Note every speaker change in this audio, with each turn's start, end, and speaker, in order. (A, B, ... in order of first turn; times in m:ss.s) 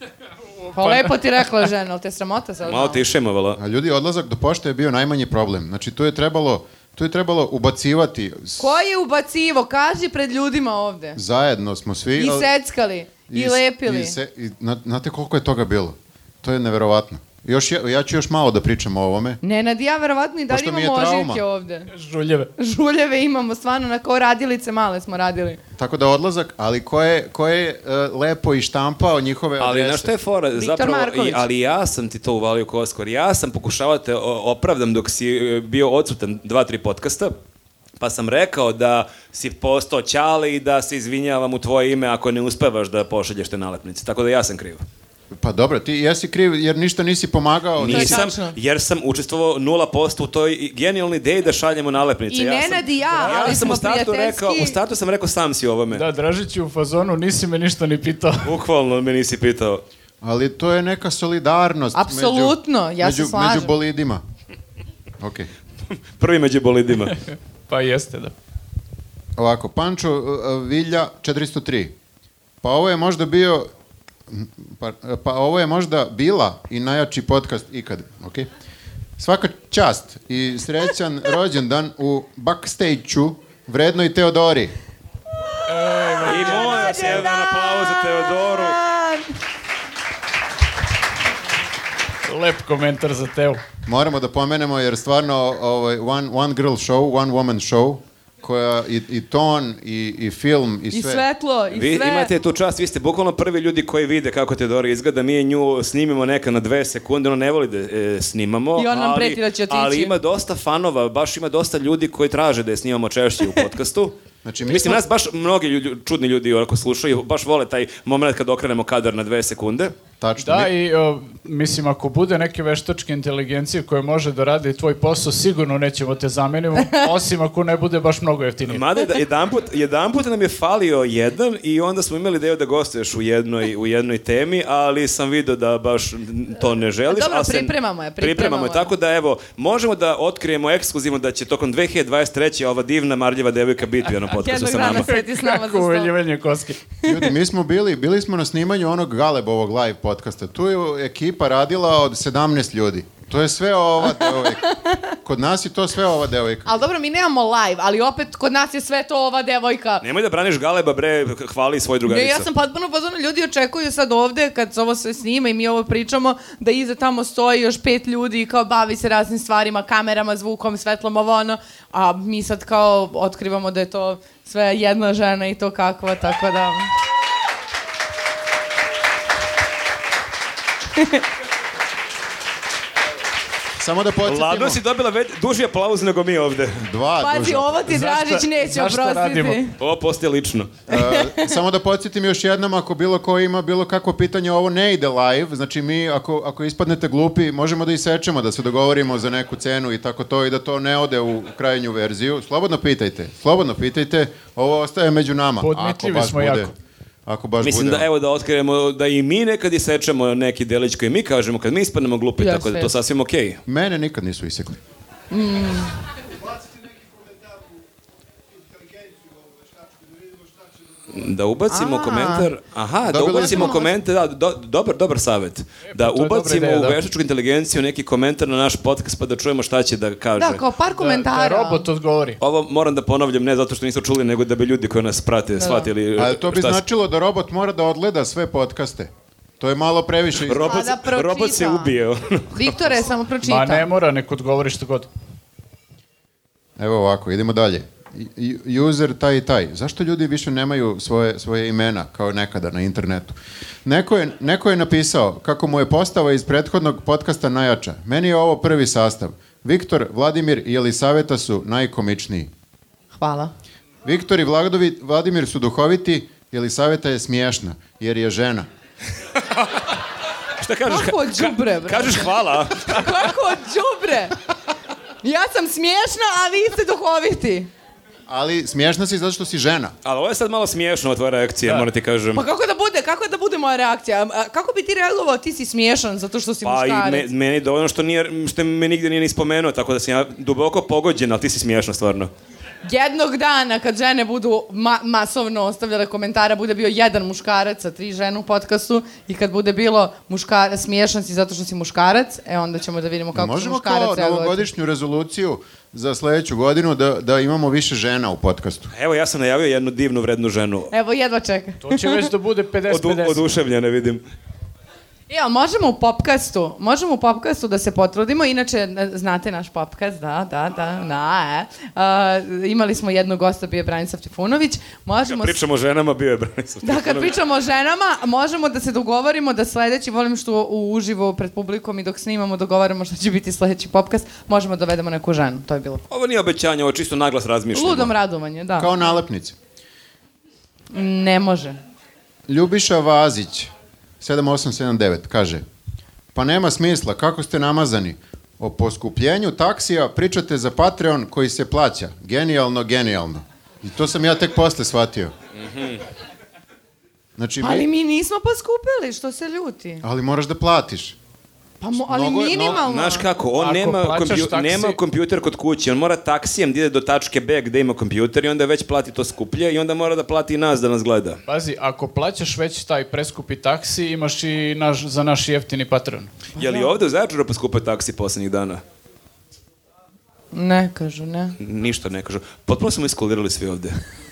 0:00.6-0:01.4 A
0:00.8-0:03.0 B
0:02.7-0:03.6 C
0:03.6-0:08.8 D
0:08.6-0:11.2 B
0:11.2-0:12.5 D
0:12.2-0:14.2 B
0:13.3-0:19.4 D
0:19.4-0:21.9 B
0:20.5-0:21.4 D
0:21.9-0:22.5 A
0:22.6-0:25.6 B
0:25.8-0:30.1 D
0:29.6-0:37.3 C
0:30.6-0:31.5 B
0:38.0-0:44.8 C
0:45.3-0:48.3 D
0:47.8-0:56.0 C
0:47.9-0:48.6 B
0:52.3-0:54.8 B
0:55.9-0:58.5 A
0:58.4-0:59.8 C
1:00.2-1:04.2 D
1:02.0-1:03.7 B
1:05.2-1:05.5 D
1:06.1-1:07.2 C
1:07.1-1:08.3 A
1:09.4-1:11.9 D
1:12.6-1:13.7 D
1:14.3-1:18.5 D
1:19.2-1:24.8 D
1:25.7-1:27.2 A
1:25.8-1:29.4 B
1:26.2-1:28.8 C
1:32.2-1:33.6 A
1:33.8-1:41.2 D
1:40.9-1:42.3 B
1:41.7-1:59.9 C
1:48.8-1:50.2 B
1:54.4-1:55.0 D
2:00.2-2:00.7 D
2:00.4-2:08.8 A
2:08.7-2:25.1 C
2:17.1-2:18.9 B
2:24.3-2:26.1 B
2:24.9-2:26.9 A
2:27.0-2:34.7 D
2:34.1-2:35.1 B
2:35.2-2:36.7 D
2:36.7-2:40.0 B
2:40.0-2:42.5 C
2:42.1-2:56.9 B
3:00.9-3:01.2 B
3:03.8-3:04.8 D
3:04.2-3:06.8 C
3:06.8-3:07.9 D
3:07.2-3:09.8 B
3:07.9-3:09.6 A
3:09.8-3:10.8 C
3:10.9-3:11.5 B
3:10.9-3:26.7 D
3:25.6-3:26.7 A
3:27.3-3:28.1 D
3:27.6-3:33.6 C
3:32.4-3:33.0 B
3:33.7-3:34.8 D
3:35.3-3:35.9 B
3:41.1-3:50.6 C
3:41.7-3:42.5 B
3:43.0-3:43.8 D
3:43.4-3:43.9 B
3:45.9-3:47.0 A
3:50.4-3:51.9 B
3:51.0-3:52.4 A
3:52.4-3:56.8 C
3:55.5-3:55.9 B
3:56.2-4:00.7 D
4:00.4-4:02.8 C
4:00.6-4:02.0 B
4:02.5-4:03.9 B
4:03.4-4:05.1 A
4:06.8-4:22.5 D
4:23.2-4:23.5 B
4:24.0-4:28.7 D
4:29.5-4:29.9 C
4:30.6-4:33.1 C
4:30.9-4:34.4 B
4:35.2-4:37.7 B
4:38.3-4:40.0 D
4:40.0-4:42.4 C
4:42.4-4:47.3 B
4:46.6-4:52.3 C
4:52.8-5:04.7 B
5:03.3-5:08.9 D
5:08.9-5:10.9 C
5:10.9-5:12.3 B
5:11.8-5:13.4 A
5:12.9-5:14.2 C
5:15.3-5:25.6 B
5:25.2-5:27.3 C
5:26.8-5:36.0 B
5:36.1-5:38.1 C
5:37.7-5:39.1 B
5:38.8-5:39.6 D
5:40.9-5:41.8 B
5:42.5-5:45.6 D
5:46.3-5:55.3 D
5:55.6-5:56.0 C
5:57.4-5:57.9 D
5:57.6-6:00.0 B
6:00.0-6:01.2 D
6:01.8-6:03.3 B
6:01.9-6:02.8 D
6:02.6-6:11.4 C
6:03.6-6:05.0 A
6:11.5-6:16.3 A
6:16.6-6:17.0 B
6:16.6-6:18.8 C
6:20.5-6:21.6 B
6:21.6-6:24.0 C